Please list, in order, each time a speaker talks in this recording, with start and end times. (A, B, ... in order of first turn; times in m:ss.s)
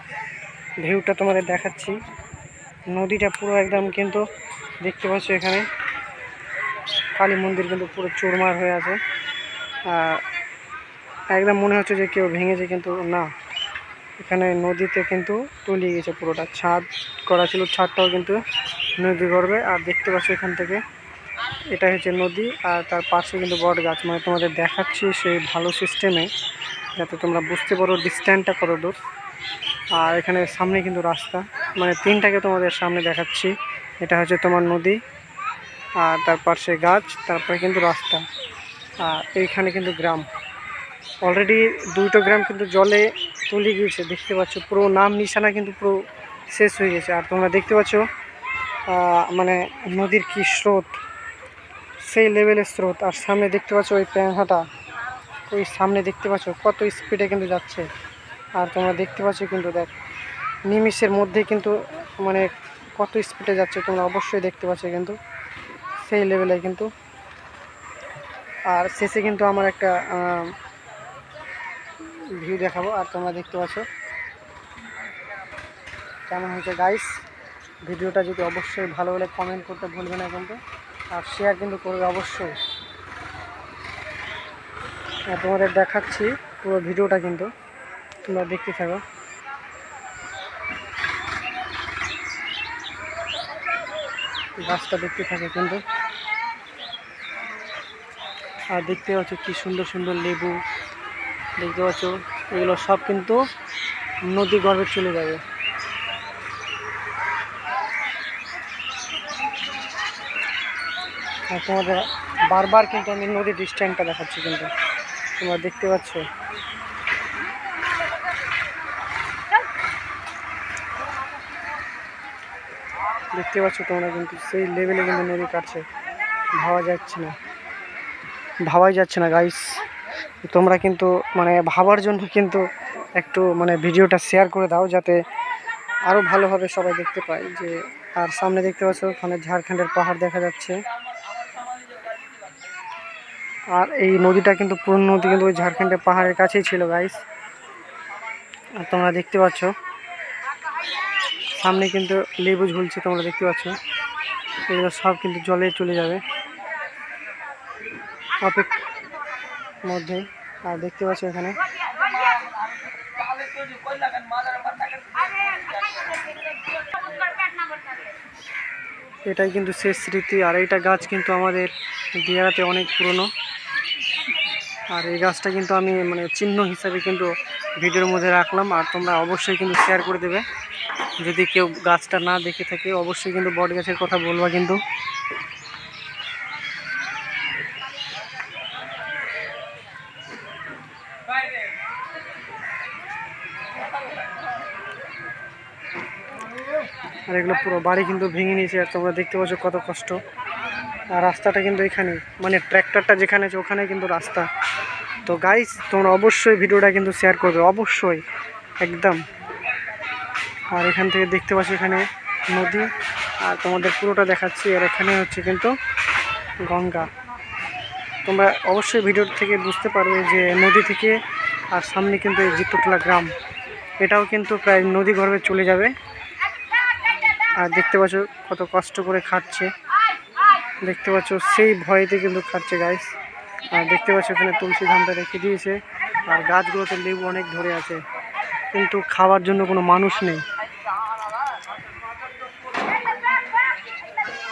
0:00.8-0:02.0 A
0:02.9-0:04.2 A
0:04.8-0:05.7 A
0:07.2-0:09.0 A
0:09.9-0:10.2 A
0:11.3-0:13.3 A
0:14.2-0:18.4 A
0:19.0-0:20.8 A
0:21.7-0:26.3 A
0:27.0-0:29.0 A
0:30.0-0:35.0 A
0:36.0-0:38.2 A
0:39.0-0:40.3 A
0:41.2-0:46.0 A
0:46.5-0:48.0 A
0:48.9-0:51.0 A
0:52.1-0:54.6 A
0:55.5-0:57.9 A
0:58.6-0:59.9 A
1:00.7-1:05.2 A
1:06.0-1:06.9 A
1:08.7-1:10.5 A
1:12.4-1:13.9 A
1:16.3-1:17.1 A
1:17.9-1:20.6 A
1:21.1-1:22.6 A
1:25.3-1:27.5 A
1:28.3-1:29.0 A
1:34.6-1:35.8 A
1:38.7-1:40.6 A
1:41.6-1:43.4 A
1:44.3-1:45.4 A
1:51.5-1:54.7 A
1:55.4-1:56.2 A
2:03.3-2:05.8 A
2:06.6-2:07.4 A
2:08.7-2:09.8 A
2:10.4-2:12.6 A
2:13.2-2:15.2 A
2:16.1-2:20.8 A
2:23.7-2:27.2 A
2:28.8-2:29.7 A
2:31.6-2:33.8 A
2:34.7-2:36.2 A
2:38.4-2:38.8 A
2:39.9-2:41.6 A
2:49.3-2:53.3 A
2:54.9-3:00.4 A
3:01.2-3:04.8 A
3:17.3-3:20.2 A
3:21.1-3:24.5 A
3:25.2-3:28.2 A
3:28.8-3:29.2 A
3:30.7-3:32.9 A
3:33.4-3:35.7 A
3:36.6-3:37.1 A
3:38.2-3:41.2 A
3:41.7-3:43.3 A
3:44.0-3:45.9 A
3:47.6-3:49.7 A
3:50.8-3:53.1 A
3:53.7-3:58.0 A
3:58.7-4:00.4 A